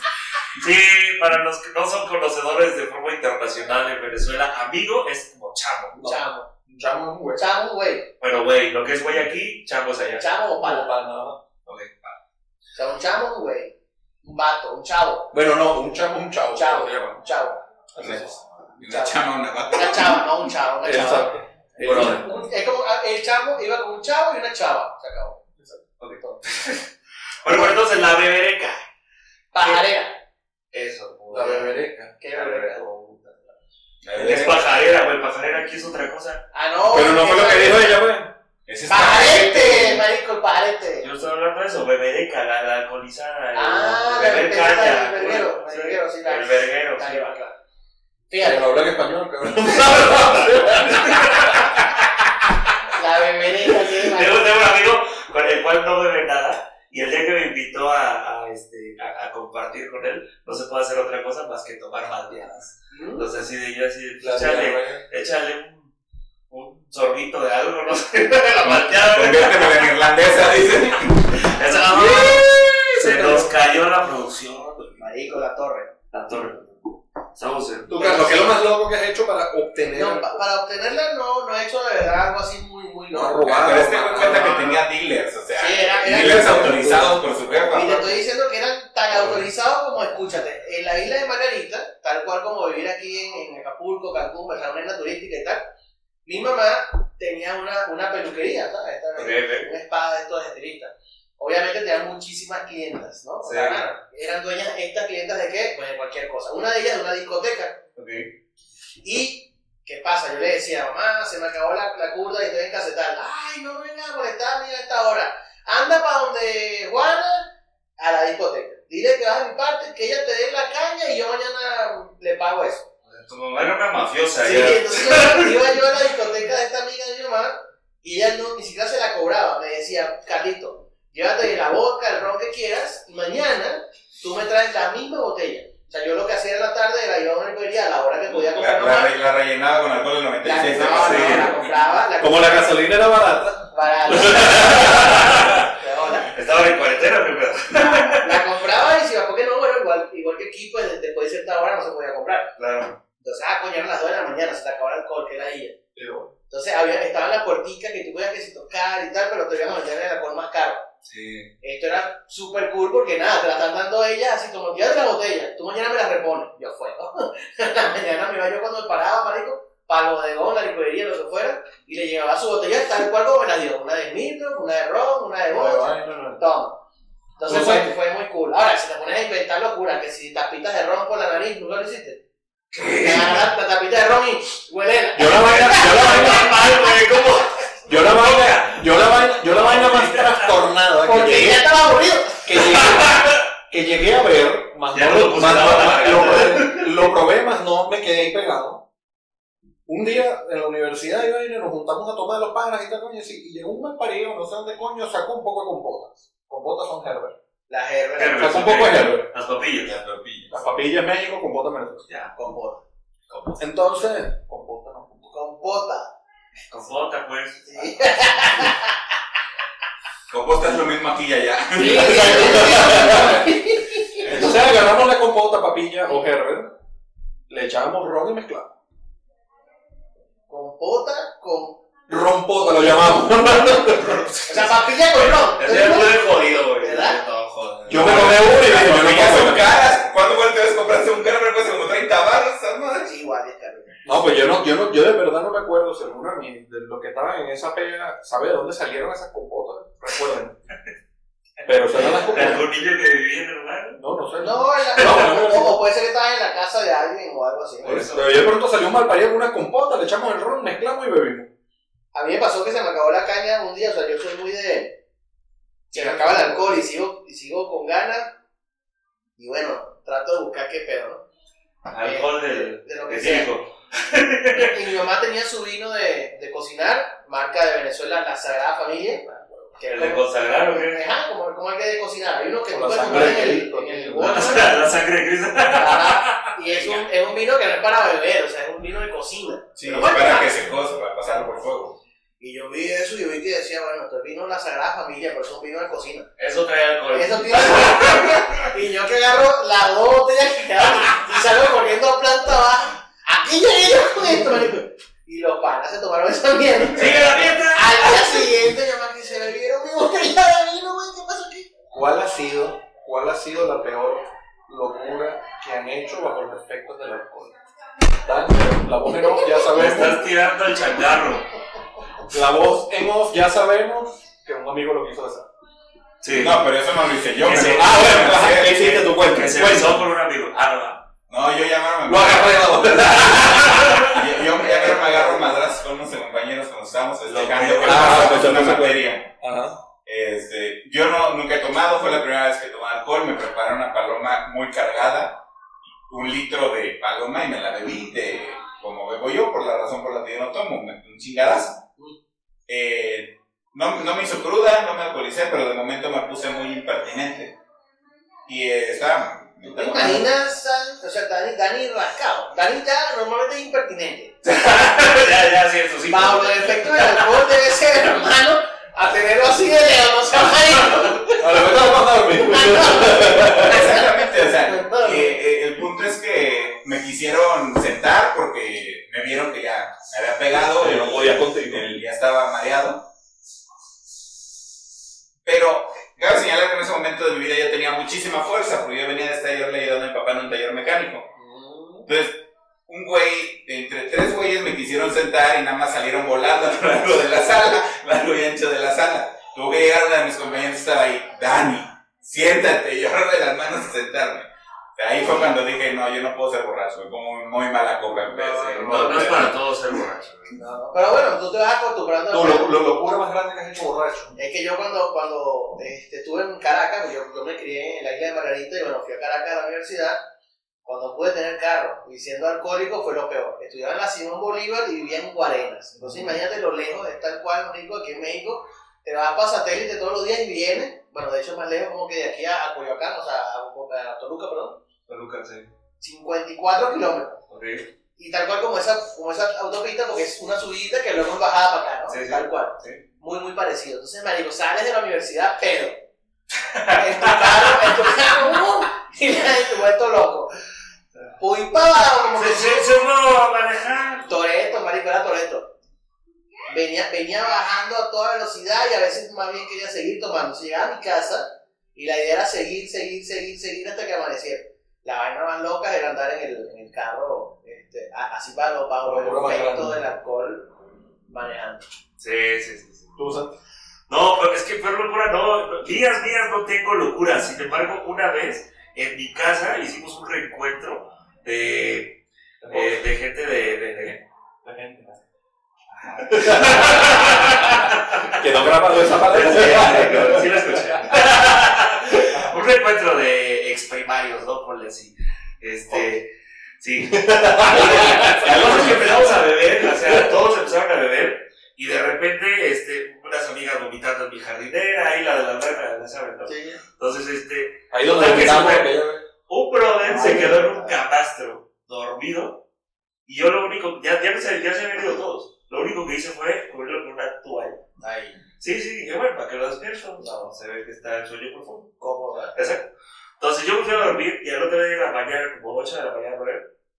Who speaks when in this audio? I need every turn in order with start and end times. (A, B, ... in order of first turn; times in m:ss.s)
0:00.5-0:06.0 A
0:05.9-0:07.4 B
0:06.0-0:06.5 C
0:07.4-0:08.1 C
0:08.2-0:10.2 A
0:10.2-0:10.9 C
0:10.6-0:11.4 B
0:11.6-0:12.2 A
0:12.8-0:15.3 C
0:15.3-0:17.2 B
0:16.5-0:17.6 C
0:17.9-0:18.4 B
0:18.0-0:20.2 D
0:18.8-0:25.4 C
0:20.8-0:22.4 B
0:21.8-0:22.2 A
0:26.0-0:26.9 A
0:27.4-0:28.8 A
0:27.4-0:27.8 C
0:29.5-0:30.2 C
0:30.7-0:31.7 A
0:31.3-0:32.1 B
0:32.2-0:32.8 C
0:32.3-0:33.4 A
0:34.0-0:34.7 D
0:34.1-0:36.4 A
0:36.5-0:38.0 C
0:36.9-0:38.4 B
0:38.7-0:40.0 D
0:38.9-0:41.1 C
0:41.0-0:47.3 A
0:43.5-0:47.6 C
0:48.3-0:48.7 C
0:48.4-0:51.9 B
0:50.0-0:51.7 A
0:52.9-0:54.4 C
0:54.0-1:05.9 A
1:02.9-1:03.2 C
1:04.2-1:05.0 B
1:06.5-1:09.9 A
1:08.7-1:11.4 D
1:11.3-1:15.0 A
1:11.8-1:13.5 B
1:15.0-1:15.9 C
1:16.1-1:16.8 A
1:17.3-1:18.4 A
1:17.9-1:20.4 B
1:18.0-1:18.5 C
1:19.9-1:24.8 C
1:23.1-1:24.8 B
1:23.5-1:28.1 D
1:25.5-1:26.8 C
1:26.1-1:28.0 B
1:27.7-1:35.7 C
1:36.2-1:47.8 C
1:39.2-1:39.7 A
1:43.4-1:43.9 A
1:48.0-1:48.3 A
1:49.0-2:02.9 C
2:03.0-2:05.5 A
2:04.4-2:19.1 C
2:18.3-2:21.6 D
2:20.4-2:22.7 C
2:20.8-2:21.6 A
2:20.8-2:21.5 B
2:22.2-2:25.5 B
2:23.7-2:26.3 C
2:24.3-2:25.7 A
2:26.3-2:28.4 A
2:28.1-2:32.5 C
2:32.6-2:33.0 A
2:33.2-2:35.8 C
2:35.9-2:36.3 B
2:36.5-2:40.9 C
2:41.0-2:41.5 A
2:41.6-2:56.8 C
2:55.5-2:56.4 B
2:57.4-3:02.2 C
2:57.4-2:57.9 B
3:02.7-3:03.4 A
3:02.8-3:06.9 C
3:05.1-3:06.5 B
3:05.7-3:10.6 A
3:07.9-3:11.6 B
3:11.0-3:12.8 C
3:12.4-3:18.8 B
3:12.8-3:13.4 A
3:14.9-3:16.9 A
3:19.8-3:27.3 B
3:27.7-3:28.8 C
3:28.2-3:30.5 A
3:28.4-3:29.3 B
3:30.1-3:30.4 D
3:30.5-3:32.0 B
3:32.1-3:32.3 A
3:32.3-3:32.8 C
3:33.3-3:33.6 A
3:33.6-3:35.3 B
3:35.3-3:36.1 C
3:36.7-3:37.9 A
3:37.6-3:39.0 C
3:40.3-3:43.4 D
3:41.8-3:43.6 B
3:41.8-3:44.4 C
3:44.1-3:46.7 B
3:47.5-3:48.7 B
3:50.5-3:51.8 C
3:52.1-3:54.4 B
3:52.6-3:53.2 C
3:53.7-3:58.5 A
3:54.5-3:57.2 C
3:57.9-3:59.7 B
3:58.0-4:03.1 D
4:03.0-4:04.0 C
4:04.0-4:10.6 B
4:11.6-4:12.7 B
4:11.9-4:14.0 A
4:13.9-4:15.8 B
4:14.4-4:18.1 C
4:17.8-4:21.5 B
4:17.8-4:18.5 A
4:22.1-4:25.0 C
4:25.9-4:28.3 C
4:25.9-4:26.8 B
4:29.4-4:31.2 C
4:31.8-4:34.8 A
4:32.0-4:33.5 C
4:34.5-4:44.9 C
4:39.8-4:41.0 A
4:42.7-4:44.9 B
4:44.2-4:47.1 A
4:45.7-4:50.5 C
4:49.8-4:52.0 D
4:52.4-4:56.3 C
4:56.4-4:58.6 A
4:57.1-5:11.7 C
5:01.0-5:01.3 A
5:06.9-5:08.5 A
5:11.9-5:17.6 B
5:18.2-5:20.2 B
5:19.7-5:21.5 A
5:22.3-5:25.5 B
5:26.2-5:26.6 A
5:26.3-5:28.9 D
5:27.4-5:31.0 A
5:27.5-5:30.1 B
5:31.3-5:33.3 D
5:32.0-5:35.5 B
5:33.3-5:34.1 A
5:34.0-5:39.3 D
5:37.2-5:38.4 A
5:37.8-5:39.8 B
5:40.0-5:45.4 D
5:46.1-5:51.8 D
5:52.7-5:57.6 D
5:58.5-6:00.3 D
5:59.6-6:04.4 C
6:04.4-6:07.5 A
6:06.1-6:15.4 C
6:10.5-6:11.2 A
6:11.4-6:13.9 B
6:13.5-6:23.0 D
6:20.8-6:21.9 B
6:25.4-6:31.3 D
6:31.4-6:32.1 C
6:32.0-6:49.6 D
6:48.2-6:49.5 C
6:48.8-6:50.6 A
6:50.5-6:52.7 C
6:52.3-6:54.4 B
6:54.4-7:00.2 C
7:00.8-7:14.8 C
7:15.1-7:15.7 A
7:16.0-7:17.4 C
7:17.5-7:17.9 A
7:18.2-7:26.1 C
7:22.1-7:23.0 A
7:26.6-7:28.3 A
7:26.9-7:30.5 C
7:31.4-7:32.9 C
7:32.3-7:34.3 A
7:34.2-7:35.7 C
7:36.7-7:50.7 C
7:49.0-7:50.0 B
7:51.3-7:51.8 C
7:52.2-7:53.1 A
7:53.2-7:53.5 B
7:54.1-8:04.2 A
8:02.7-8:03.0 B
8:04.6-8:05.1 B
8:06.0-8:08.3 A
8:06.2-8:11.1 B
8:09.1-8:28.9 A
8:17.1-8:20.3 B
8:26.5-8:26.8 C
8:27.9-8:29.2 B
8:29.5-8:32.6 A
8:30.1-8:31.0 C
8:30.1-8:30.6 B
8:33.2-8:37.8 A
8:38.0-8:38.4 C
8:38.6-8:41.9 A
8:40.2-8:40.5 C
8:42.0-8:42.5 C
8:42.5-8:42.9 A
8:43.4-8:46.7 A